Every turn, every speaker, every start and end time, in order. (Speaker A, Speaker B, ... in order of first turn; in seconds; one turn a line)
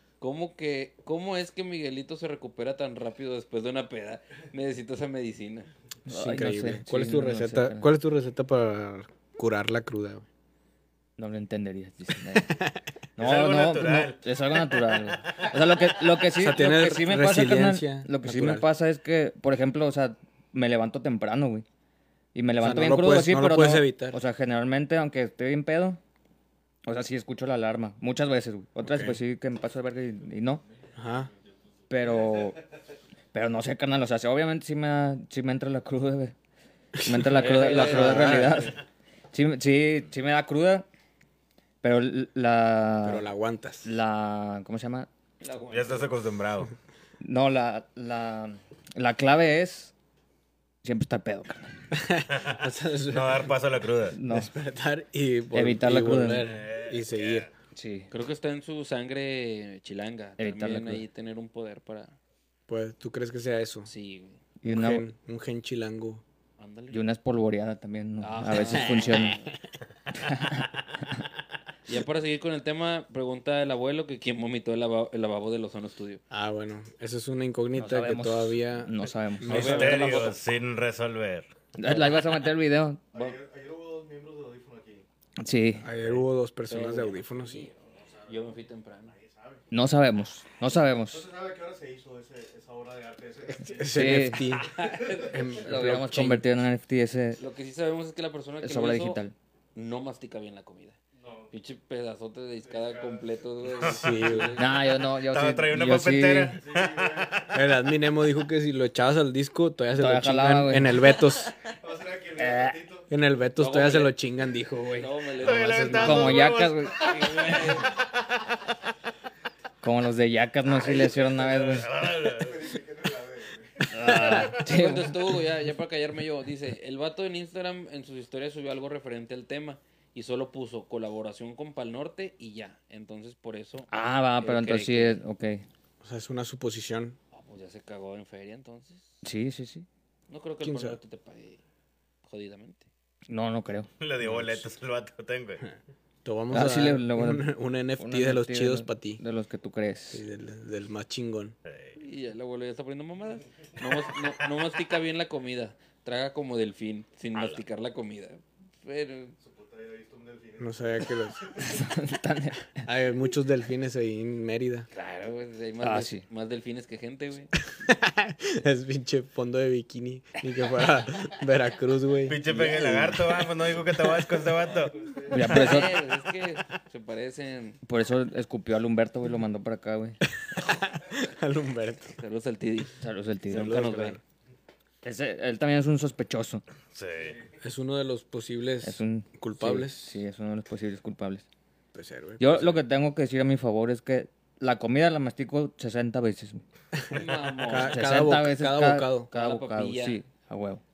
Speaker A: 0.2-5.7
Speaker B: 6.1-7.9
Speaker C: 6.1-10.3
Speaker B: 11.2-12.6
Speaker C: 12.2-12.8
Speaker B: 13.2-21.6
Speaker D: 13.2-15.6
Speaker C: 16.4-18.7
Speaker B: 22.3-26.0
Speaker C: 22.6-24.2
Speaker B: 26.9-30.6
Speaker C: 28.9-29.2
Speaker C: 31.0-31.3
Speaker B: 31.9-32.6
Speaker E: 32.0-32.6
Speaker B: 33.3-36.4
Speaker C: 37.0-38.7
Speaker B: 37.0-38.8
Speaker A: 37.4-38.8
Speaker B: 39.3-40.9
Speaker B: 41.8-43.3
Speaker C: 43.0-43.9
Speaker B: 43.8-45.1
Speaker A: 45.4-46.1
Speaker D: 45.7-46.7
Speaker B: 47.2-49.9
Speaker B: 50.8-51.9
Speaker C: 51.9-53.5
Speaker D: 52.3-54.2
Speaker B: 54.1-54.5
Speaker C: 54.2-57.5
Speaker B: 55.5-56.5
Speaker D: 56.4-57.5
Speaker B: 57.7-58.1
Speaker A: 58.1-62.2
Speaker B: 60.4-61.0
Speaker C: 62.7-63.9
Speaker A: 63.9-64.4
Speaker B: 64.6-65.1
Speaker C: 64.7-66.2
Speaker A: 66.6-67.0
Speaker B: 66.9-69.5
Speaker A: 68.2-69.5
Speaker B: 70.1-70.7
Speaker A: 71.9-76.2
Speaker C: 76.3-80.2
Speaker B: 77.8-79.7
Speaker A: 79.4-80.4
Speaker D: 79.4-81.5
Speaker B: 81.8-83.0
Speaker E: 83.1-85.0
Speaker B: 85.4-85.9
Speaker C: 85.8-87.7
Speaker A: 86.7-89.1
Speaker E: 87.8-89.6
Speaker B: 89.7-91.3
Speaker E: 91.1-95.6
Speaker C: 93.6-96.5
Speaker B: 93.9-94.5
Speaker A: 94.5-95.5
Speaker B: 95.6-97.4
Speaker A: 97.4-99.2
Speaker B: 98.6-99.3
Speaker A: 99.8-101.0
Speaker E: 101.2-101.5
Speaker A: 101.5-104.7
Speaker E: 102.6-104.6
Speaker D: 103.8-104.1
Speaker C: 103.8-104.6
Speaker B: 104.6-106.6
Speaker D: 105.2-107.7
Speaker E: 106.6-107.6
Speaker C: 107.5-111.5
Speaker B: 110.0-111.0
Speaker E: 111.7-113.1
Speaker B: 112.4-112.8
Speaker C: 113.1-116.4
Speaker A: 113.6-114.2
Speaker A: 114.9-118.0
Speaker D: 115.4-118.1
Speaker B: 116.0-117.0
Speaker B: 119.8-121.9
Speaker D: 120.7-122.7
Speaker E: 122.2-124.1
Speaker B: 123.8-125.2
Speaker A: 124.2-135.2
Speaker D: 124.3-124.6
Speaker B: 133.9-135.7
Speaker C: 136.0-137.2
Speaker A: 137.3-139.2
Speaker B: 139.2-139.9
Speaker A: 140.3-141.6
Speaker C: 140.6-141.0
Speaker A: 142.2-142.9
Speaker B: 143.3-143.9
Speaker D: 144.0-145.6
Speaker C: 144.2-144.6
Speaker C: 145.6-149.2
Speaker B: 146.5-150.2
Speaker C: 150.1-151.6
Speaker D: 151.7-152.0
Speaker A: 152.0-159.3
Speaker D: 157.3-157.6
Speaker E: 159.4-161.9
Speaker C: 160.6-161.5
Speaker B: 161.6-162.9
Speaker C: 162.8-164.9
Speaker A: 164.9-167.7
Speaker B: 165.8-166.2
Speaker C: 167.8-174.5
Speaker D: 172.2-175.0
Speaker E: 174.6-175.9
Speaker B: 175.3-175.9
Speaker A: 175.3-177.8
Speaker B: 177.8-180.2
Speaker C: 180.5-182.2
Speaker A: 182.2-184.2
Speaker B: 183.0-183.9
Speaker C: 183.5-184.2
Speaker B: 185.0-186.6
Speaker D: 186.9-187.4
Speaker C: 187.6-190.2
Speaker B: 188.8-191.4
Speaker C: 191.9-192.8
Speaker B: 192.4-196.6
Speaker C: 196.9-199.3
Speaker A: 197.1-198.2
Speaker B: 197.8-200.8
Speaker A: 199.3-200.2